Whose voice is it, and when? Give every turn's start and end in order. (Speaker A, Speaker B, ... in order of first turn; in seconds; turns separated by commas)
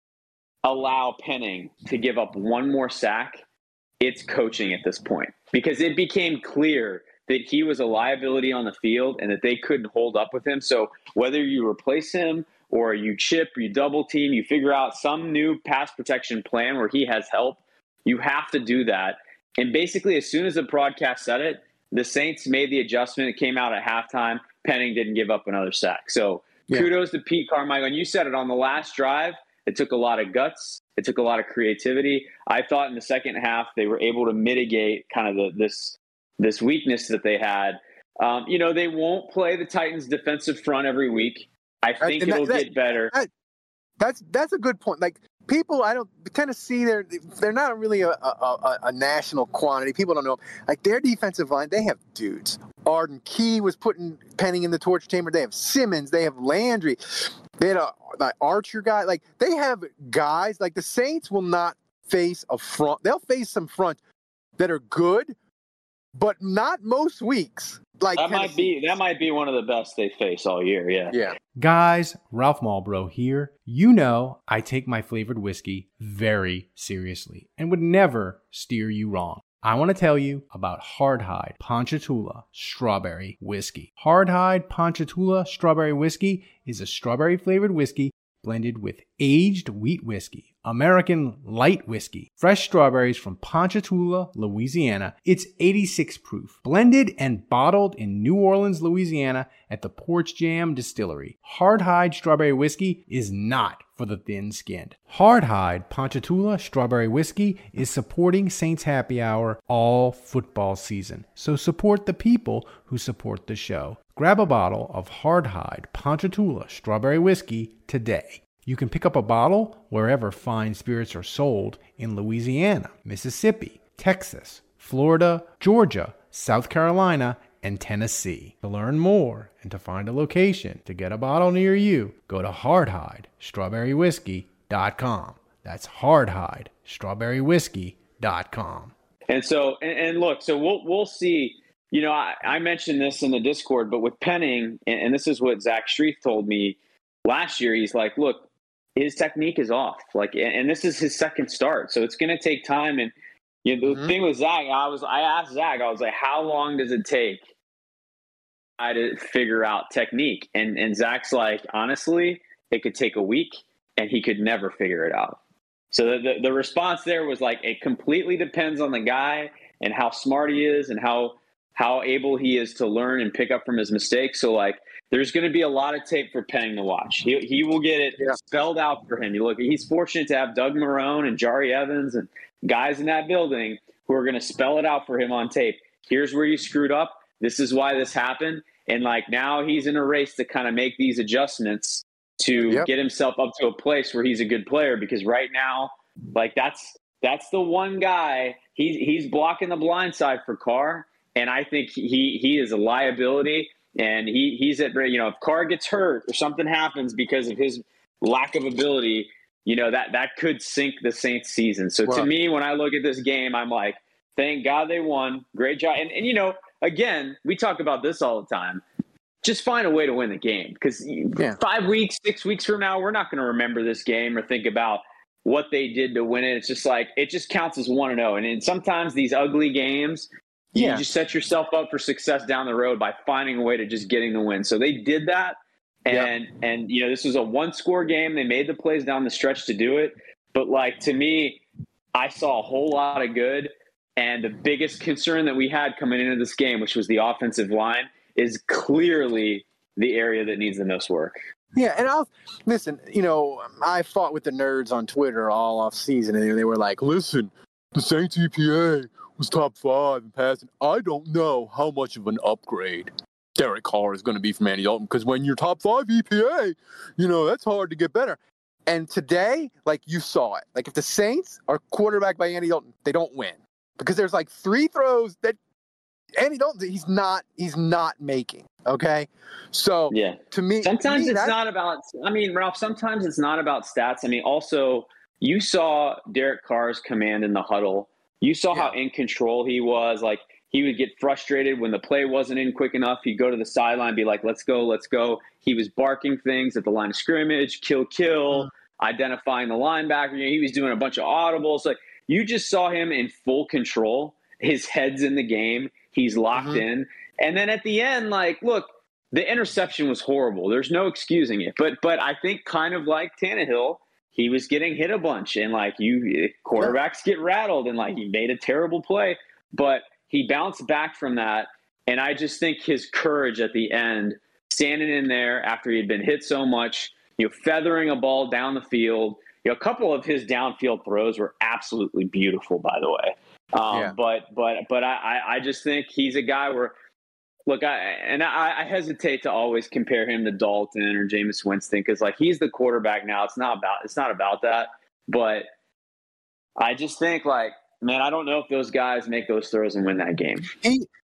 Speaker A: 0.6-3.4, Speaker A: 4.0-43.1, Speaker B: 42.0-43.3, Speaker B: 44.0-64.0, Speaker B: 64.6-65.3, Speaker B: 66.1-68.9, Speaker A: 68.1-71.2, Speaker C: 71.6-138.9, Speaker A: 139.3-148.4, Speaker A: 148.9-153.1, Speaker A: 153.6-157.4, Speaker B: 153.9-154.1, Speaker A: 158.8-165.4, Speaker A: 165.9-218.8, Speaker B: 192.6-192.9, Speaker A: 219.4-241.6, Speaker B: 230.7-231.0, Speaker A: 242.1-251.4, Speaker B: 251.8-275.6, Speaker B: 276.4-281.5, Speaker A: 280.1-336.9, Speaker B: 306.5-306.8, Speaker A: 337.7-345.6, Speaker A: 346.8-350.7, Speaker B: 350.8-351.1